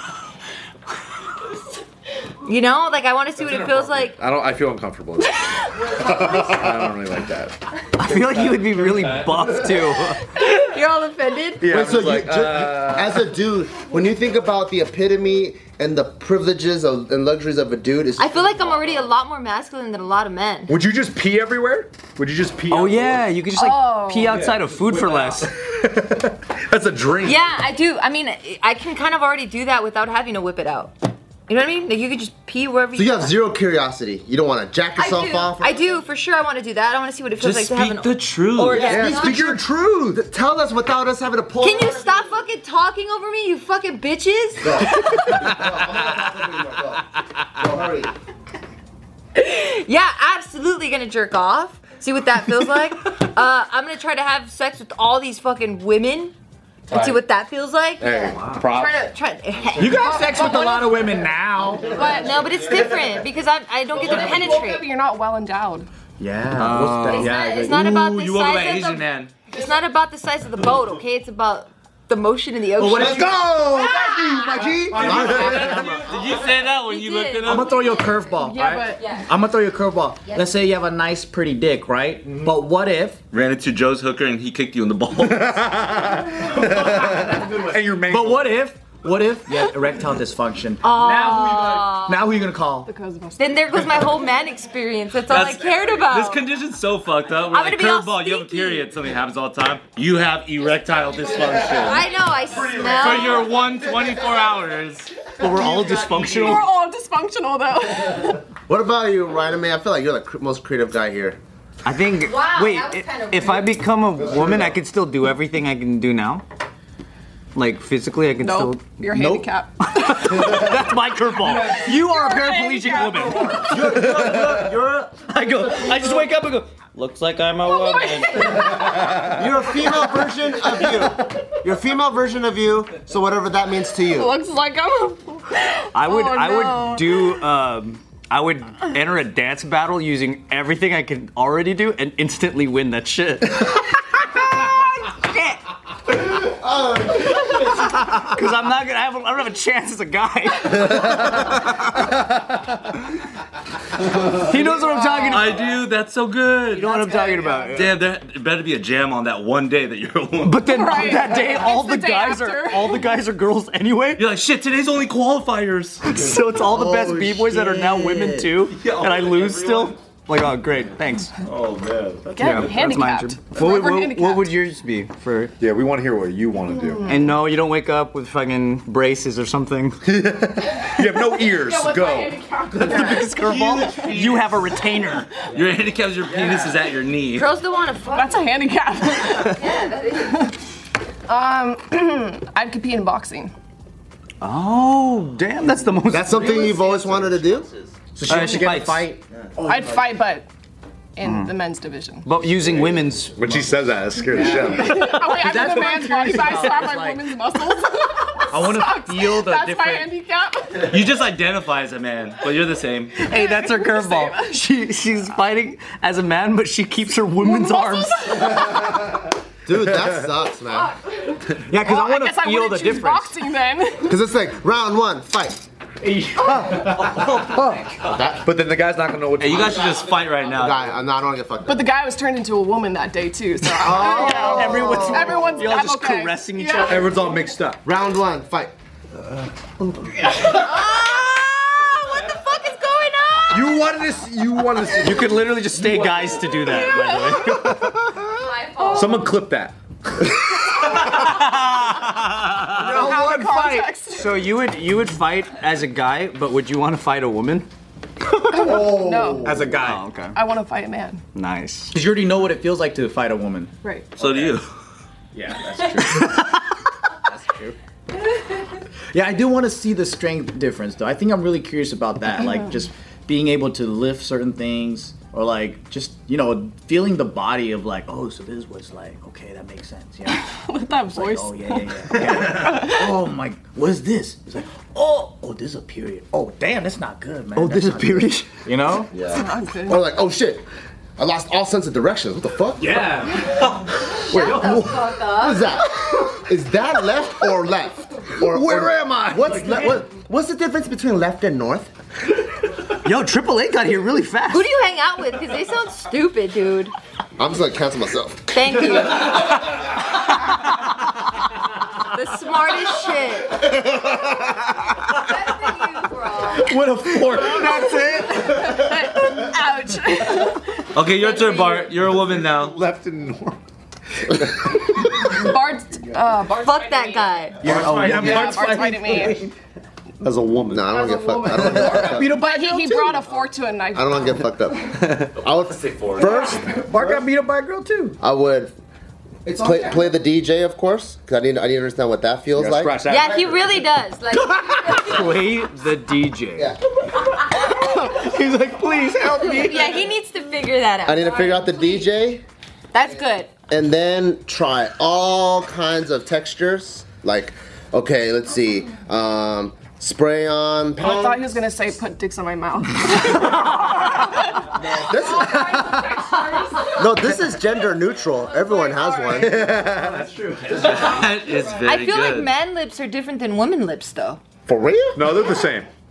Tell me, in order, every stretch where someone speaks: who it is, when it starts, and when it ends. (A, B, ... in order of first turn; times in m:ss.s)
0:02.4-0:04.2 A
0:03.4-0:09.8 B
0:06.0-0:06.5 A
0:08.0-0:10.2 C
0:10.4-0:11.7 A
0:11.6-0:13.3 B
0:11.7-0:18.7 D
0:18.2-0:20.8 A
0:20.7-0:23.3 B
0:22.7-0:25.5 C
0:23.5-0:24.5 E
0:24.2-0:27.6 B
0:27.2-0:30.9 A
0:31.5-0:33.3 A
0:32.9-0:36.0 D
0:35.0-0:39.5 A
0:37.4-0:38.9 F
0:38.7-0:42.4 D
0:38.8-0:39.6 B
0:41.6-0:45.2 A
0:44.6-0:48.1 D
0:49.4-0:56.3 A
0:56.9-1:00.8 A
0:56.9-0:57.2 B
0:58.0-0:59.0 B
0:58.3-0:58.6 F
0:59.8-1:02.0 G
1:00.1-1:01.2 E
1:01.9-1:02.4 E
1:02.0-1:03.0 B
1:02.1-1:04.9 A
1:03.9-1:05.9 E
1:06.2-1:07.8 G
1:06.6-1:09.4 F
1:07.1-1:15.4 A
1:12.8-1:13.5 G
1:12.9-1:16.0 D
1:13.0-1:13.3 B
1:14.7-1:16.1 B
1:15.4-1:17.8 F
1:16.8-1:18.4 A
1:17.4-1:23.2 G
1:18.4-1:19.0 E
1:18.9-1:19.3 A
1:22.3-1:22.5 B
1:23.3-1:25.5 F
1:25.2-1:28.6 B
1:26.6-1:32.9 G
1:30.8-1:32.2 A
1:31.6-1:31.8 B
1:32.8-1:34.1 E
1:33.4-1:36.4 A
1:35.3-1:42.1 F
1:37.5-1:38.9 A
1:41.1-1:44.6 B
1:41.7-1:43.5 A
1:42.9-1:45.3 F
1:45.4-1:46.5 B
1:45.4-1:46.7 C
1:46.4-1:48.4 E
1:48.7-1:51.4 D
1:51.8-1:56.4 C
1:52.2-1:53.9 A
1:54.1-1:54.8 B
1:57.6-2:08.4 C
1:58.4-2:00.4 E
2:01.4-2:01.9 B
2:01.4-2:03.9 E
2:03.7-2:05.2 D
2:03.9-2:04.8 B
2:07.6-2:09.1 E
2:08.5-2:09.4 B
2:09.3-2:14.3 D
2:14.1-2:17.5 E
2:15.9-2:23.8 C
2:26.1-2:27.9 D
2:27.6-2:31.3 C
2:34.3-2:35.4 C
2:34.7-2:35.8 E
2:35.3-2:37.0 F
2:36.7-2:37.7 E
2:36.8-2:38.0 C
2:37.6-2:40.7 F
2:40.4-2:44.2 C
2:40.6-2:43.1 E
2:44.1-2:46.1 F
2:46.0-2:51.3 C
2:48.6-2:50.0 F
2:51.4-2:52.8 F
2:52.3-2:55.5 C
2:52.4-2:54.6 E
2:55.6-2:57.2 B
2:56.7-2:57.4 E
2:57.0-3:00.0 C
3:00.0-3:02.9 B
3:01.7-3:03.3 E
3:02.8-3:05.3 C
3:03.4-3:04.3 F
3:05.5-3:07.5 F
3:07.3-3:08.6 A
3:08.1-3:09.6 E
3:09.5-3:10.5 A
3:10.3-3:10.6 E
3:11.3-3:13.5 E
3:14.4-3:16.9 C
3:16.1-3:17.7 D
3:18.1-3:20.0 G
3:18.3-3:19.1 C
3:19.7-3:20.5 E
3:21.2-3:22.3 E
3:21.3-3:21.5 C
3:22.2-3:23.7 C
3:22.7-3:24.9 B
3:24.4-3:24.6 G
3:24.4-3:30.8 E
3:24.9-3:26.8 C
3:25.4-3:27.3 G
3:28.5-3:30.1 G
3:30.8-3:33.2 F
3:33.2-3:38.5 C
3:33.2-3:34.6 E
3:37.4-3:38.8 E
3:39.7-3:41.0 D
3:39.8-3:40.2 B
3:40.8-3:41.1 A
3:41.7-3:44.2 E
3:41.8-3:43.3 G
3:44.0-3:45.6 D
3:46.1-3:46.4 C
3:46.4-3:47.2 B
3:47.2-3:47.7 C
3:47.5-3:47.8 G
3:48.0-3:48.5 D
3:48.4-3:50.1 B
3:49.4-3:50.9 F
3:50.4-3:51.9 D
3:51.7-3:57.4 E
3:53.8-3:56.9 C
3:53.9-3:55.0 D
3:56.9-3:57.8 B
3:57.8-3:58.7 D
4:00.4-4:03.9 A
4:03.5-4:06.7 B
4:04.9-4:08.0 C
4:06.8-4:07.3 E
4:07.4-4:08.2 B
4:08.3-4:09.3 A
4:08.9-4:11.4 B
4:11.4-4:11.8 C
4:11.6-4:12.6 F
4:12.6-4:17.7 C
4:12.8-4:13.1 B
4:12.8-4:14.5 E
4:18.2-4:18.7 C
4:18.5-4:19.7 E
4:18.7-4:19.6 B
4:19.4-4:20.4 C
4:20.3-4:21.2 E
4:21.3-4:21.9 C
4:21.9-4:23.7 G
4:23.8-4:24.1 E
4:24.2-4:24.7 F
4:25.4-4:26.6 G
4:29.1-4:40.4 G
4:32.4-4:32.7 E
4:40.3-4:43.2 E
4:40.9-4:49.1 G
4:47.6-4:48.5 C
4:49.1-4:50.6 D
4:49.3-4:50.0 E
4:51.2-4:53.0 D
4:53.1-4:53.4 B
4:54.1-4:55.7 A
4:54.3-5:01.9 D
4:54.6-4:55.1 B
4:58.4-5:00.0 B
5:03.0-5:04.5 C
5:04.5-5:06.9 A
5:07.4-5:09.1 D
5:08.5-5:09.6 A
5:12.1-5:13.7 A
5:13.5-5:14.8 D
5:15.1-5:16.7 A
5:16.6-5:18.2 C
5:17.3-5:21.7 E
5:20.9-5:22.8 F
5:21.5-5:23.6 B
5:24.2-5:24.8 B
5:25.0-5:27.3 E
5:26.5-5:27.8 A
5:27.6-5:28.5 B
5:27.6-5:29.4 G
5:27.9-5:29.4 C
5:28.2-5:29.4 E
5:30.2-5:31.0 B
5:30.7-5:32.3 D
5:31.0-5:34.4 E
5:31.5-5:31.9 B
5:31.5-5:33.2 G
5:33.9-5:36.8 D
5:35.5-5:36.4 F
5:36.5-5:38.2 G
5:38.2-5:38.7 D
5:39.5-5:43.0 D
5:39.5-5:39.9 G
5:42.6-5:44.0 B
5:43.1-5:45.5 A
5:45.0-5:46.7 C
5:46.6-5:46.8 D
5:47.6-5:48.1 A
5:48.1-5:50.0 C
5:49.4-5:52.1 A
5:51.1-5:52.4 D
5:52.9-5:53.5 A
5:53.7-6:01.6 D
6:01.0-6:07.4 E
6:04.7-6:05.6 D
6:06.3-6:07.1 A
6:07.0-6:09.6 D
6:08.5-6:09.4 E
6:09.4-6:10.9 B
6:10.7-6:12.5 F
6:11.6-6:11.9 E
6:11.9-6:14.4 A
6:14.7-6:15.2 D
6:15.2-6:15.9 B